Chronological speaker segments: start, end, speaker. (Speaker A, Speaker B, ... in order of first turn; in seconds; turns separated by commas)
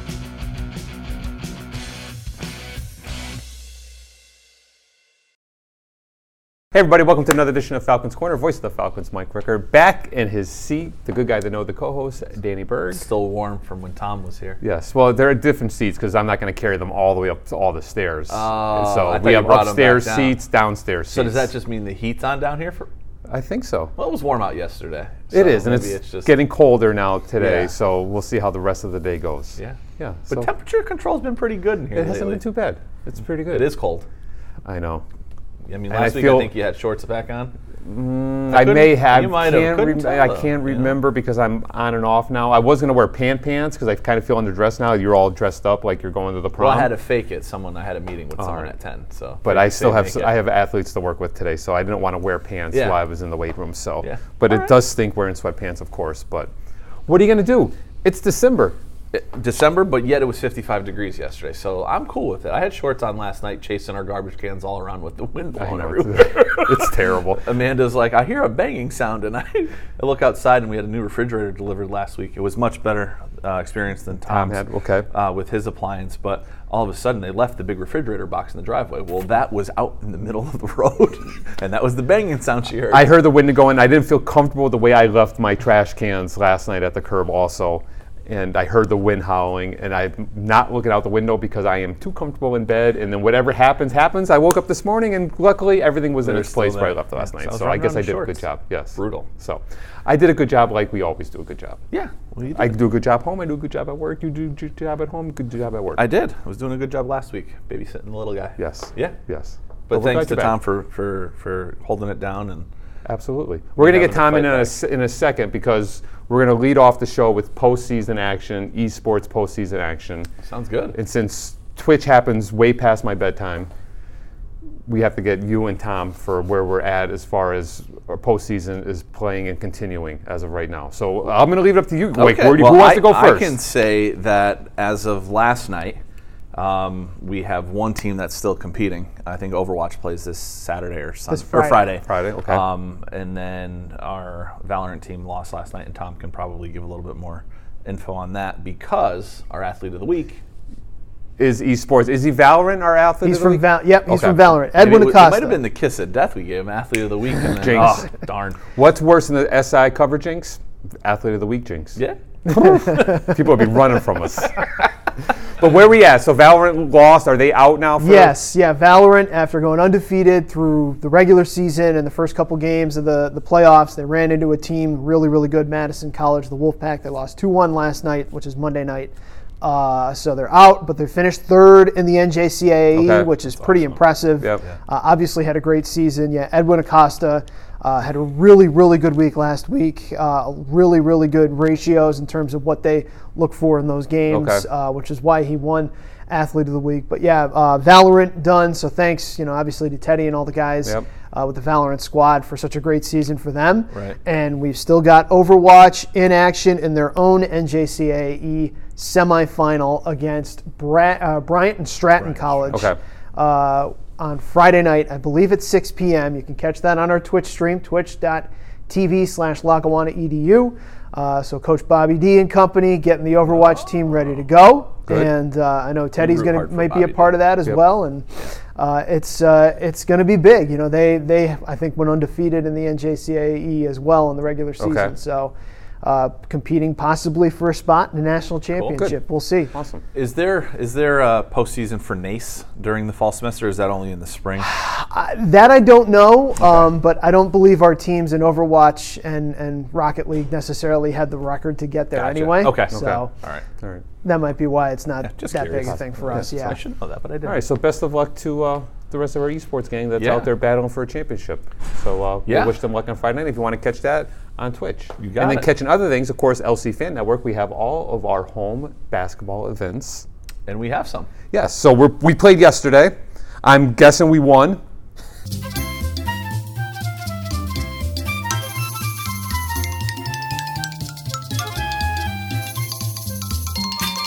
Speaker A: 6.7-13.0, Speaker B: 12.9-14.6, Speaker A: 14.6-21.5, Speaker B: 18.3-20.4, Speaker B: 21.1-22.9, Speaker A: 23.3-23.9, Speaker B: 24.0-26.3, Speaker A: 25.3-30.5, Speaker B: 27.4-27.7, Speaker B: 29.6-32.4, Speaker A: 31.9-33.7, Speaker B: 33.5-34.1, Speaker A: 34.6-35.0, Speaker B: 35.7-37.5, Speaker A: 35.9-36.5, Speaker A: 37.8-46.9, Speaker B: 38.5-41.0, Speaker B: 46.6-50.4, Speaker A: 48.4-48.7, Speaker A: 49.5-56.5, Speaker B: 52.7-53.0, Speaker B: 54.0-54.7, Speaker A: 57.1-58.8, Speaker B: 59.1-83.1, Speaker A: 65.6-67.5, Speaker A: 74.3-75.1, Speaker A: 82.9-101.8, Speaker B: 96.2-98.4, Speaker B: 99.0-99.3, Speaker B: 101.9-102.7, Speaker A: 102.5-106.0, Speaker B: 106.0-109.2, Speaker A: 108.6-110.6, Speaker B: 109.9-112.7, Speaker A: 113.1-120.3, Speaker B: 113.8-114.8, Speaker B: 120.5-121.0, Speaker A: 120.9-123.7, Speaker A: 124.9-133.6, Speaker B: 132.1-136.0, Speaker B: 136.5-150.4, Speaker C: 141.3-141.8, Speaker A: 142.0-142.6, Speaker A: 151.4-154.5, Speaker C: 153.2-155.6, Speaker B: 154.7-158.6, Speaker A: 157.6-158.1, Speaker A: 158.8-164.7, Speaker A: 165.6-168.3, Speaker C: 168.0-239.7, Speaker A: 182.9-183.3, Speaker B: 183.5-184.0, Speaker A: 194.3-194.7, Speaker B: 203.9-204.2, Speaker B: 212.2-212.9, Speaker B: 226.2-227.4, Speaker A: 234.8-235.1, Speaker A: 238.9-239.2, Speaker A: 239.7-240.0, Speaker B: 240.1-244.8, Speaker C: 244.6-253.3, Speaker B: 252.2-253.7, Speaker A: 252.9-253.2, Speaker A: 253.8-254.0, Speaker C: 254.2-256.8, Speaker B: 255.2-257.6, Speaker A: 257.4-270.3, Speaker B: 260.2-260.5, Speaker B: 262.5-262.7, Speaker B: 265.2-265.7, Speaker B: 270.7-271.3, Speaker A: 271.5-274.8